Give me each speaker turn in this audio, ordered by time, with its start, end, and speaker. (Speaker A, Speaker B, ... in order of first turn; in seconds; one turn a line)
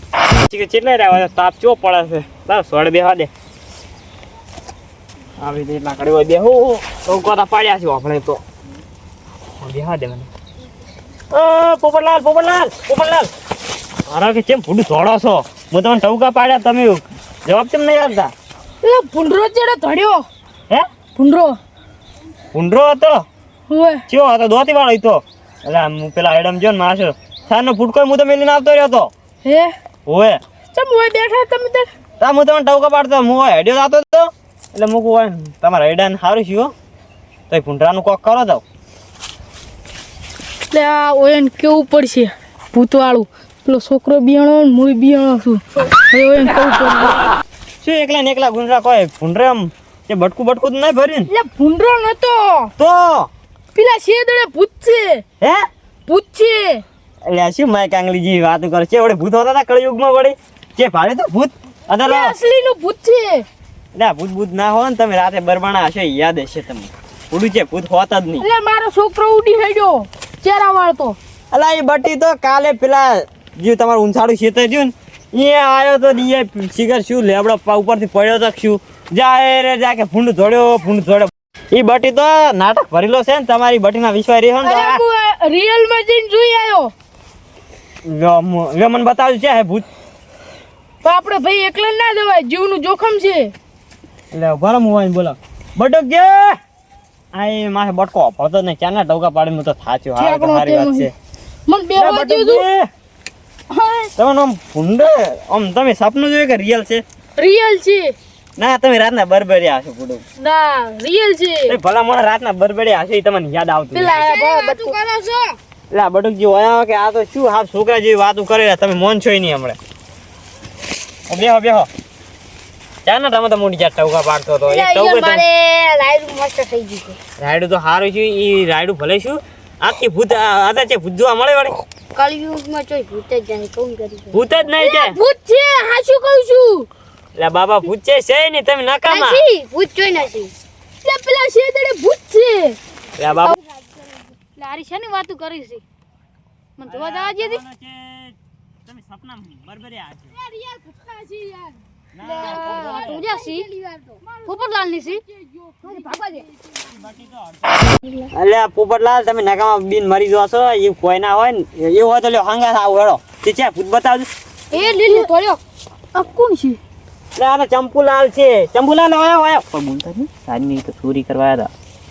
Speaker A: 0.3-3.3
Speaker A: 5.4-8.4
Speaker A: 9.6-10.3
Speaker A: 11.3-13.3
Speaker A: 14.1-18.3
Speaker B: 18.8-20.2
Speaker B: 21.1-21.6
Speaker A: 22.5-23.2
Speaker B: 23.7-24.0
Speaker A: 24.1-29.1
Speaker B: 29.4-29.7
Speaker A: 30.1-30.4
Speaker B: 30.7-31.9
Speaker A: 32.2-36.7
Speaker A: 37.5-38.6
Speaker B: 40.7-47.2
Speaker A: 47.8-51.3
Speaker B: 51.3-52.7
Speaker A: 52.8-53.3
Speaker B: 53.8-55.2
Speaker B: 56.1-56.8
Speaker A: 57.3-62.4
Speaker B: 62.0-63.5
Speaker A: 64.0-68.5
Speaker B: 68.4-71.2
Speaker A: 71.5-85.0
Speaker B: 84.6-86.9
Speaker A: 88.0-89.9
Speaker B: 91.0-93.5
Speaker A: 94.3-96.6
Speaker A: 97.3-101.1
Speaker B: 100.2-101.1
Speaker B: 101.7-102.6
Speaker A: 102.0-102.9
Speaker B: 103.7-104.1
Speaker A: 104.2-107.0
Speaker B: 107.4-108.2
Speaker A: 108.6-110.2
Speaker B: 110.4-111.8
Speaker A: 111.7-114.2
Speaker B: 113.9-115.0
Speaker C: 114.1-115.5
Speaker A: 115.9-119.8
Speaker A: 121.3-121.9
Speaker A: 123.0-125.4
Speaker C: 124.7-127.2
Speaker A: 127.4-131.8
Speaker C: 132.2-134.4
Speaker A: 134.3-135.2
Speaker B: 134.8-136.9
Speaker A: 137.4-139.4
Speaker C: 139.1-140.5
Speaker B: 141.0-142.8
Speaker A: 143.2-143.6
Speaker D: 144.5-145.8
Speaker D: 146.8-147.6
Speaker A: 146.8-150.4
Speaker B: 150.5-151.8
Speaker A: 152.1-153.2
Speaker C: 152.3-154.2
Speaker D: 152.4-153.7
Speaker B: 154.2-156.4
Speaker D: 154.4-155.2
Speaker D: 155.8-156.4
Speaker A: 156.8-157.6
Speaker A: 158.3-164.3
Speaker D: 164.7-165.6
Speaker B: 164.7-165.6
Speaker B: 166.1-166.8
Speaker A: 167.4-171.7